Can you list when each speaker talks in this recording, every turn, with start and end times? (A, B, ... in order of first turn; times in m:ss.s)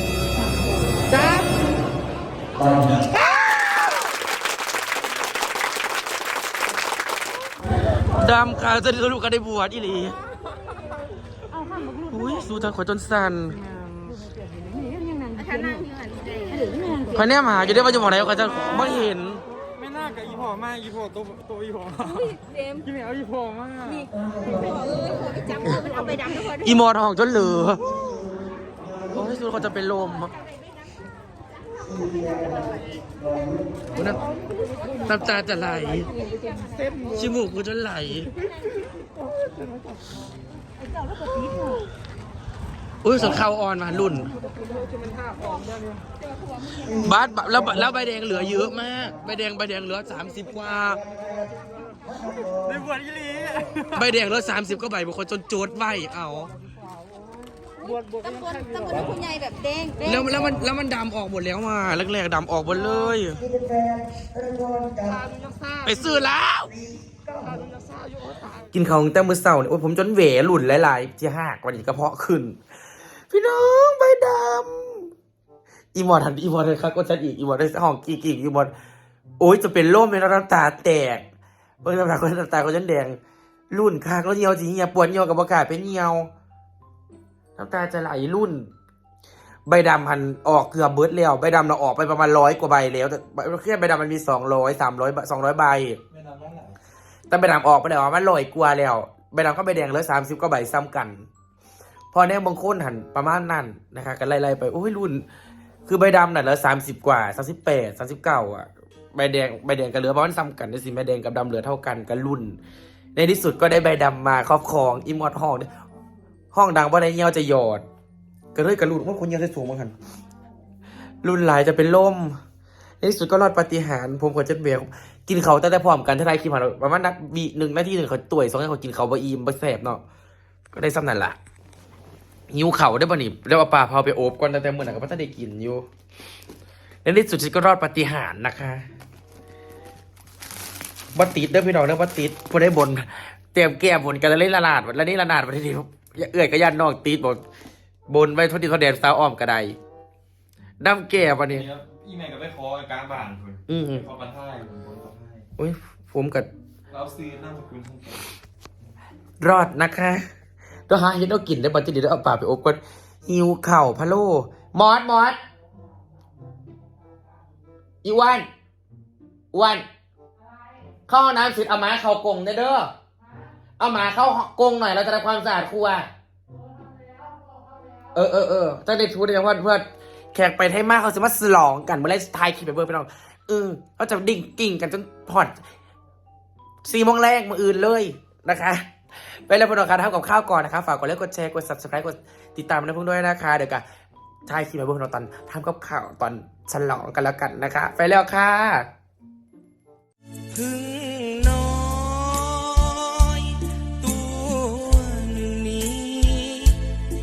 0:03.0-0:03.7 A
0:08.1-0:10.2 A
0:12.0-0:13.6 A
0:14.9-0:17.2 B
0:17.1-0:19.4 A
0:19.8-0:24.1 C
0:24.2-0:25.0 D
0:24.8-0:25.3 B
0:25.6-0:25.8 A
0:25.8-0:26.3 B
0:26.4-0:27.9 A
0:29.1-0:30.3 A
0:31.9-0:33.6 D
0:33.9-0:34.2 A
0:35.0-0:36.1 A
0:37.0-0:38.3 A
0:43.0-0:44.3 A
0:46.8-0:51.0 A
0:52.2-0:52.7 D
0:52.7-0:54.0 C
0:53.9-0:56.5 A
0:58.3-1:00.0 B
1:00.0-1:03.4 A
1:03.6-1:05.2 D
1:05.8-1:06.7 A
1:08.7-1:12.6 A
1:13.3-1:15.1 A
1:15.9-1:18.7 A
1:19.4-1:21.2 A
1:21.8-1:23.2 A
1:23.7-1:26.3 A
1:27.6-1:28.7 A
1:29.7-1:36.0 A
1:36.1-1:36.8 C
1:37.3-1:41.3 A
1:42.1-1:45.2 A
1:45.8-1:52.6 A
1:53.1-1:55.7 A
1:56.5-1:57.8 A
1:58.5-1:59.9 A
2:01.2-2:02.4 A
2:03.0-2:10.0 A
2:10.7-2:11.4 A
2:12.5-2:15.8 A
2:17.0-2:18.9 A
2:21.1-2:27.4 A
2:28.1-2:29.8 A
2:30.8-2:31.7 A
2:31.5-2:35.4 C
2:33.7-2:34.1 A
2:35.6-2:36.5 A
2:36.9-2:38.3 C
2:39.4-2:40.2 A
2:40.9-2:45.4 A
2:48.0-2:48.5 A
2:49.5-2:49.8 A
2:51.1-2:52.9 A
2:53.8-2:56.1 A
2:58.1-3:05.6 A
3:06.8-3:08.9 A
3:09.5-3:13.8 A
3:14.4-3:18.9 A
3:20.5-3:26.8 A